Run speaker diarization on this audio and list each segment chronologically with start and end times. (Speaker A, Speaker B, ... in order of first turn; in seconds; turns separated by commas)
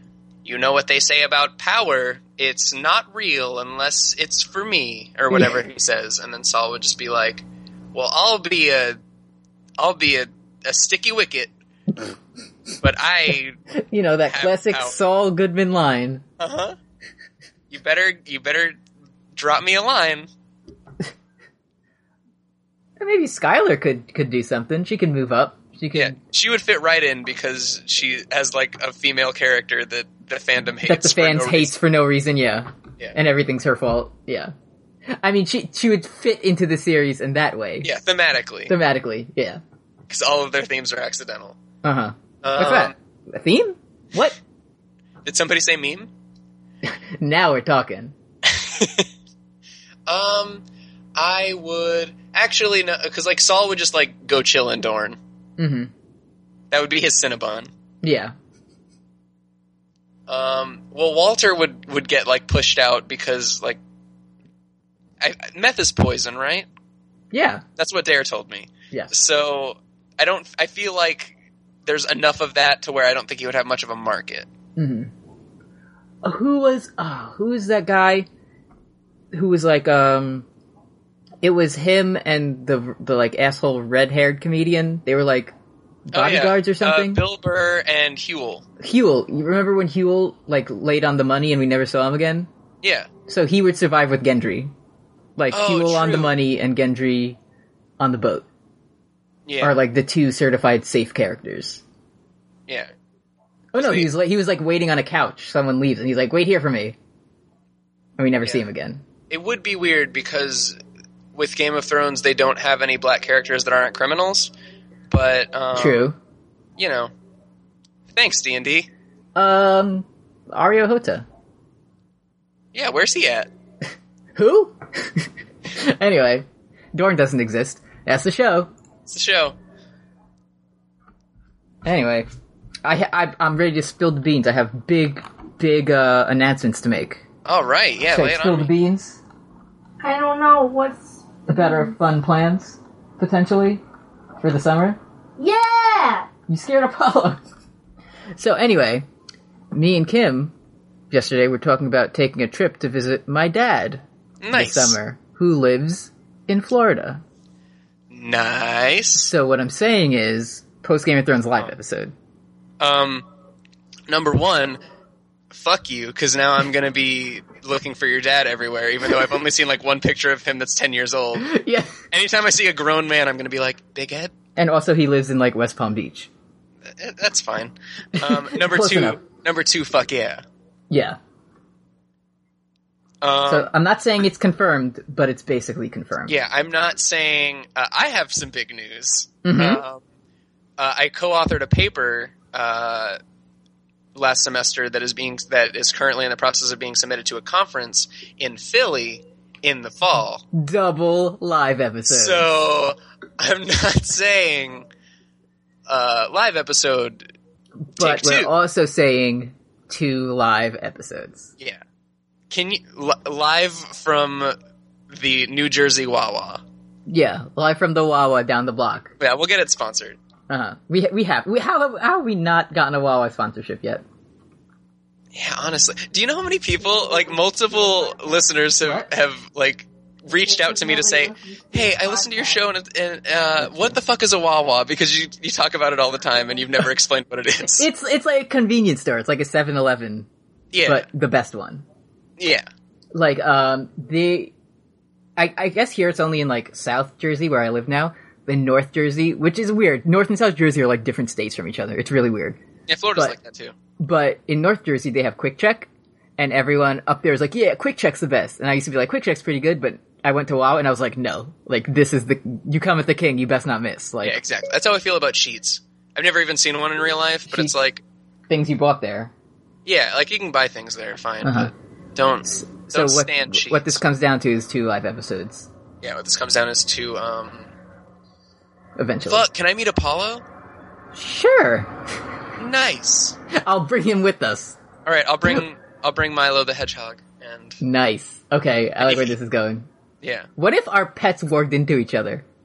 Speaker A: 0.5-9.0, Speaker B: 5.3-5.6, Speaker A: 9.8-11.5, Speaker A: 12.8-13.6, Speaker B: 13.7-16.2, Speaker A: 14.2-15.0, Speaker A: 16.4-16.8, Speaker A: 17.7-18.8, Speaker A: 19.4-20.3, Speaker B: 23.0-26.2, Speaker A: 25.9-31.8, Speaker B: 30.8-34.5, Speaker B: 35.2-38.0, Speaker A: 37.8-38.7, Speaker B: 38.7-39.6, Speaker A: 40.1-41.6, Speaker B: 41.8-44.4, Speaker A: 42.4-42.9, Speaker A: 45.2-46.1, Speaker B: 46.8-48.1, Speaker A: 48.5-49.1, Speaker A: 50.1-50.6, Speaker A: 51.2-55.2, Speaker B: 55.6-55.9, Speaker A: 56.7-57.7, Speaker B: 58.0-58.3, Speaker A: 60.3-63.8, Speaker A: 65.2-66.7, Speaker B: 67.3-67.6, Speaker A: 67.8-71.3, Speaker A: 71.8-74.5, Speaker B: 74.8-75.1, Speaker B: 76.2-78.3, Speaker B: 79.3-80.5, Speaker B: 81.4-85.5, Speaker B: 86.1-87.2, Speaker A: 86.1-88.7, Speaker B: 88.8-92.5, Speaker A: 92.8-93.1, Speaker B: 93.3-94.7, Speaker B: 95.4-97.4, Speaker A: 95.5-96.3, Speaker B: 98.0-98.5, Speaker A: 99.5-99.8, Speaker B: 99.6-101.8, Speaker B: 103.7-107.0, Speaker A: 103.8-104.1, Speaker B: 108.2-109.0, Speaker A: 109.3-110.8, Speaker A: 111.3-114.5, Speaker A: 115.1-116.1, Speaker B: 115.7-116.2, Speaker A: 116.8-117.1, Speaker A: 118.2-118.9, Speaker B: 119.4-121.3, Speaker A: 122.7-123.5, Speaker B: 124.3-128.7, Speaker A: 129.1-129.6, Speaker B: 131.8-132.3, Speaker B: 132.8-137.2, Speaker A: 137.4-138.7, Speaker B: 138.1-139.2, Speaker C: 140.0-141.9, Speaker B: 141.5-143.8, Speaker B: 144.4-145.0, Speaker C: 145.4-146.3, Speaker B: 146.5-147.4, Speaker B: 148.4-149.1, Speaker B: 149.7-150.5, Speaker B: 151.1-157.2, Speaker A: 154.4-155.0, Speaker A: 158.1-159.3, Speaker B: 159.2-162.1, Speaker A: 162.8-163.3, Speaker A: 164.1-164.8, Speaker A: 165.5-171.5, Speaker B: 171.4-171.9, Speaker A: 172.1-174.3, Speaker B: 174.6-176.3, Speaker A: 177.0-180.4, Speaker B: 178.2-179.2, Speaker B: 180.9-181.2, Speaker A: 183.2-183.7, Speaker B: 183.5-186.3, Speaker A: 186.3-190.0, Speaker B: 189.4-189.8, Speaker A: 190.8-193.2, Speaker A: 194.2-200.4, Speaker B: 200.5-202.5, Speaker A: 202.1-204.9, Speaker A: 205.9-207.2, Speaker A: 208.0-208.5, Speaker B: 208.0-211.5, Speaker A: 212.5-214.6, Speaker A: 215.1-216.6, Speaker B: 217.1-219.1, Speaker A: 219.2-220.2, Speaker B: 220.5-224.0, Speaker A: 225.3-237.9, Speaker C: 230.8-232.4, Speaker B: 233.6-234.0, Speaker B: 237.8-240.3, Speaker A: 240.7-241.1, Speaker B: 240.8-241.8, Speaker A: 242.4-242.7, Speaker B: 243.1-244.5, Speaker B: 245.4-252.6, Speaker A: 252.9-253.8, Speaker B: 254.0-264.4, Speaker A: 264.2-268.0, Speaker B: 268.5-269.3, Speaker A: 269.9-274.0, Speaker B: 271.4-271.7, Speaker B: 272.5-275.7, Speaker A: 276.0-277.7, Speaker B: 279.0-279.4, Speaker A: 279.3-280.4, Speaker B: 281.1-281.9, Speaker A: 282.6-283.4, Speaker B: 283.5-284.8, Speaker A: 285.1-287.8, Speaker B: 287.8-289.9, Speaker A: 289.0-289.4, Speaker A: 290.2-290.5, Speaker B: 290.6-292.4